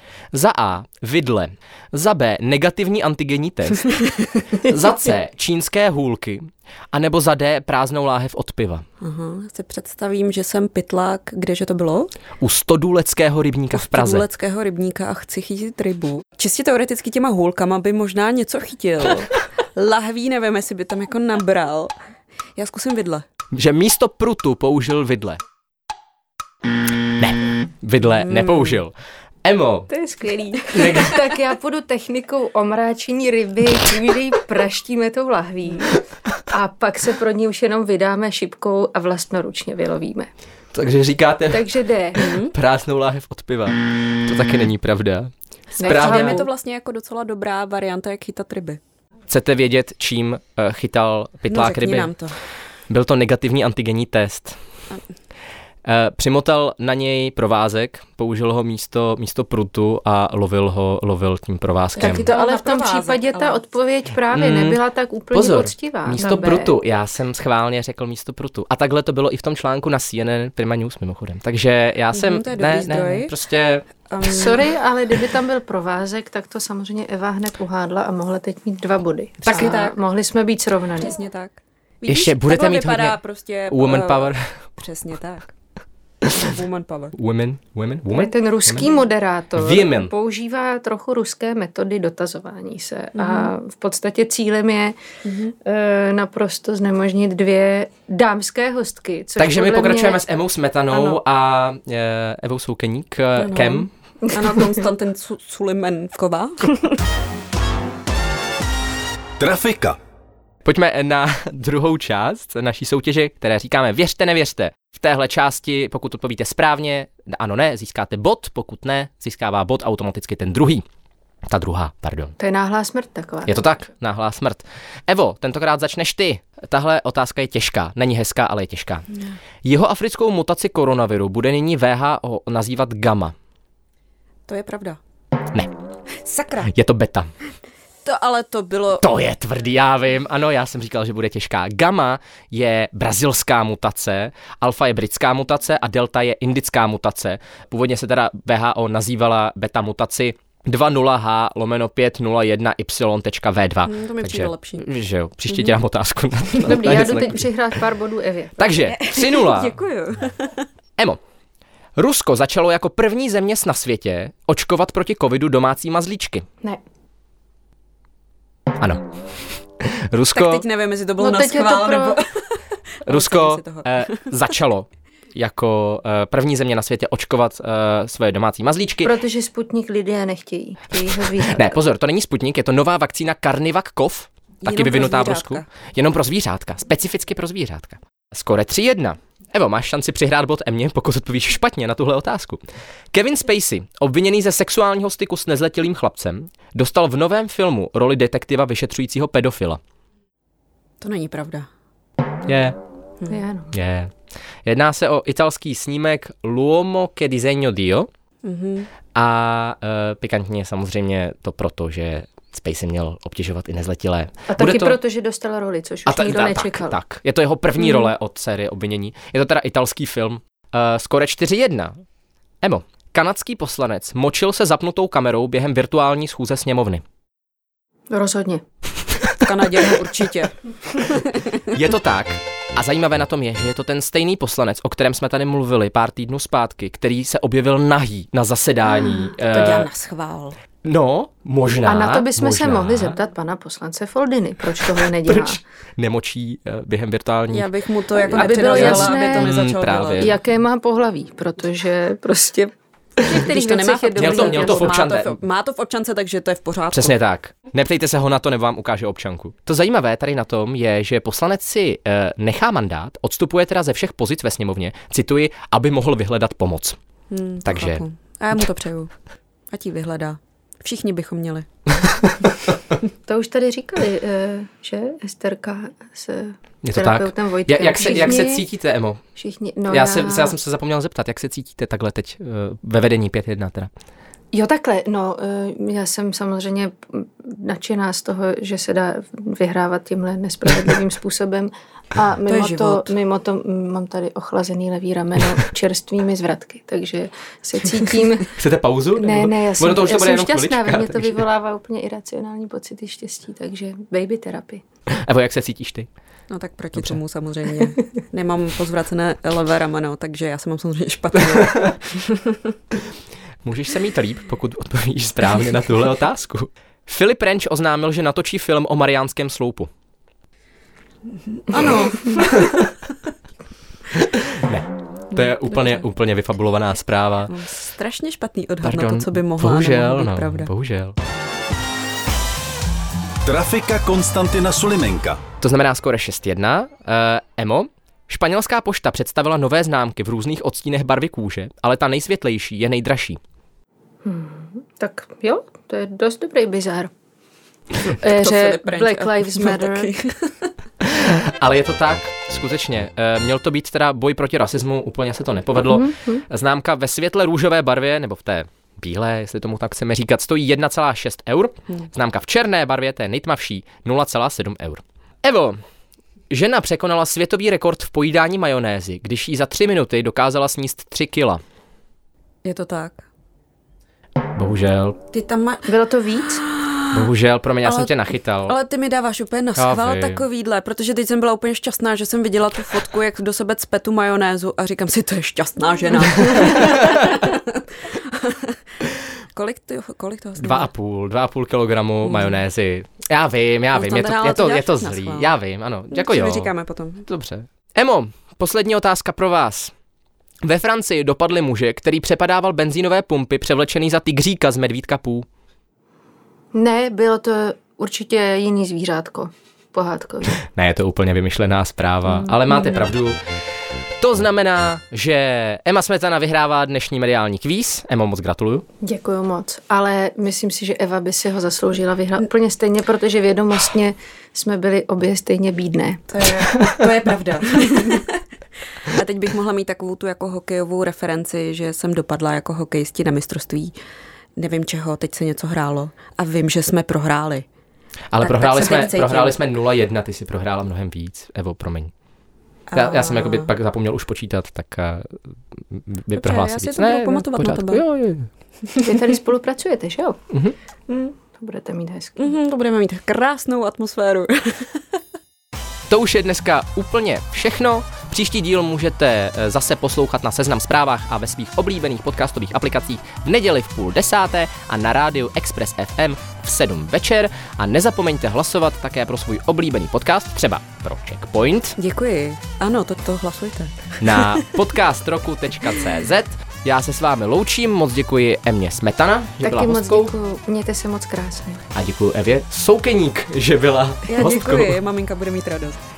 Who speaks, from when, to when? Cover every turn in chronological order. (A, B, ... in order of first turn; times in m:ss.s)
0:00.3-0:08.8 A
0:09.0-0:12.1 B
0:12.4-0:14.2 A
0:13.7-0:21.9 B
0:22.6-0:23.2 B
0:23.5-0:25.4 A
0:27.2-0:29.9 A
0:28.3-0:28.8 B
0:29.9-0:40.3 C
0:30.7-0:31.2 A
0:40.7-0:46.4 A
0:41.5-0:42.3 C
0:42.2-0:42.5 B
0:45.8-0:46.5 C
0:45.8-0:48.8 B
0:49.3-0:52.1 A
0:51.5-0:52.4 B
0:52.9-0:54.6 A
0:55.8-1:02.3 A
1:02.0-1:03.6 B
1:02.0-1:06.7 C
1:04.3-1:04.8 A
1:05.3-1:13.8 A
1:12.1-1:13.3 B
1:14.1-1:14.7 B
1:14.2-1:21.1 C
1:19.4-1:19.8 A
1:19.5-1:20.0 B
1:21.0-1:25.5 B
1:22.1-1:23.2 A
1:23.7-1:24.6 A
1:26.2-1:26.5 A
1:26.4-1:27.1 B
1:27.1-1:28.9 A
1:28.1-1:35.0 C
1:29.6-1:30.1 A
1:33.2-1:33.5 B
1:35.2-1:35.5 B
1:35.6-1:40.2 C
1:39.4-1:43.9 A
1:40.9-1:41.2 C
1:43.4-1:46.9 B
1:44.2-1:44.8 C
1:49.4-1:50.0 D
1:50.6-2:00.8 A
2:01.5-2:02.3 A
2:02.4-2:03.5 C
2:03.4-2:09.0 A
2:09.6-2:13.3 A
2:14.5-2:15.0 B
2:16.2-2:16.7 B
2:16.6-2:17.3 A
2:18.0-2:19.0 B
2:19.0-2:37.5 A
2:33.8-2:34.8 B
2:35.5-2:35.8 B
2:36.6-2:38.7 C
2:38.6-2:39.7 A
2:38.9-2:40.6 B
2:42.0-2:46.4 A
2:48.8-2:49.0 A
2:49.8-2:50.6 A
2:50.3-2:54.4 B
2:51.2-2:52.2 C
2:53.0-2:59.1 A
2:59.0-3:01.7 C
3:01.4-3:12.6 A
3:04.6-3:05.6 B
3:13.1-3:19.8 A
3:21.0-3:21.7 B
3:22.5-3:22.8 A
3:23.3-3:23.7 C
3:23.7-3:24.1 A
3:24.6-3:28.1 A
3:28.4-3:28.9 B
3:29.1-3:35.0 A
3:34.5-3:37.0 C
3:36.0-3:42.0 A
3:37.8-3:38.1 B
3:42.6-3:47.0 A
3:48.1-3:48.6 C
3:49.4-3:51.6 B
3:51.7-3:59.9 A
3:59.1-4:00.6 B
4:00.8-4:03.2 A
4:01.8-4:05.6 C
4:04.9-4:07.7 A
4:07.5-4:10.3 B
4:08.2-4:09.5 C
4:08.3-4:10.3 A
4:10.2-4:12.7 C
4:13.2-4:15.0 C
4:13.3-4:17.2 B
4:14.2-4:15.4 A
4:16.9-4:27.0 A
4:27.3-4:29.1 B
4:27.6-4:28.0 A
4:29.7-4:31.6 B
4:33.2-4:38.6 C
4:36.8-4:39.2 A
4:38.0-4:38.2 B
4:39.4-4:40.5 C
4:39.9-4:43.9 A
4:44.5-4:58.6 C
4:52.5-4:53.1 B
4:58.5-5:01.4 A
4:59.2-5:04.8 C
5:05.1-5:06.1 A
5:06.5-5:12.6 B
5:13.6-5:19.9 A
5:21.6-5:22.5 B
5:22.4-5:22.9 A
5:24.1-5:27.5 A
5:25.4-5:26.0 B
5:27.5-5:30.7 B
5:28.8-5:31.2 A
5:33.4-5:35.4 D
5:35.6-5:43.4 A
5:44.2-5:47.1 C
5:48.0-5:50.7 B
5:48.2-5:50.1 C
5:51.1-6:05.8 A
5:55.8-5:56.4 C
6:06.5-6:11.6 A
6:12.6-6:13.2 B
6:14.5-6:15.2 A
6:15.3-6:15.9 B
6:15.9-6:16.6 C
6:16.6-6:17.1 B
6:17.1-6:18.8 A
6:17.8-6:18.1 B
6:18.6-6:28.8 B
6:19.8-6:20.4 A
6:26.5-6:27.4 A
6:29.5-6:30.9 B
6:30.6-6:36.7 A
6:32.2-6:32.6 B
6:33.9-6:35.5 B
6:36.1-6:37.2 B
6:37.2-6:39.9 A
6:40.6-6:45.4 A
6:46.7-6:50.6 C
6:50.6-6:53.4 A
6:54.2-6:58.8 A
6:59.0-7:06.2 C
7:06.3-7:08.4 B
7:09.0-7:13.9 B
7:14.6-7:17.6 B
7:18.3-7:22.1 A
7:18.4-7:19.6 B
7:22.9-7:23.7 B
7:22.9-7:28.5 A
7:26.4-7:28.0 B
7:29.0-7:30.4 C
7:31.1-7:31.3 B
7:31.5-7:32.5 C
7:32.4-7:35.0 B
7:36.1-7:52.0 A
7:52.0-7:54.7 B
7:54.2-8:00.3 A
7:59.6-8:01.8 C
8:01.9-8:05.0 A
8:04.3-8:06.0 B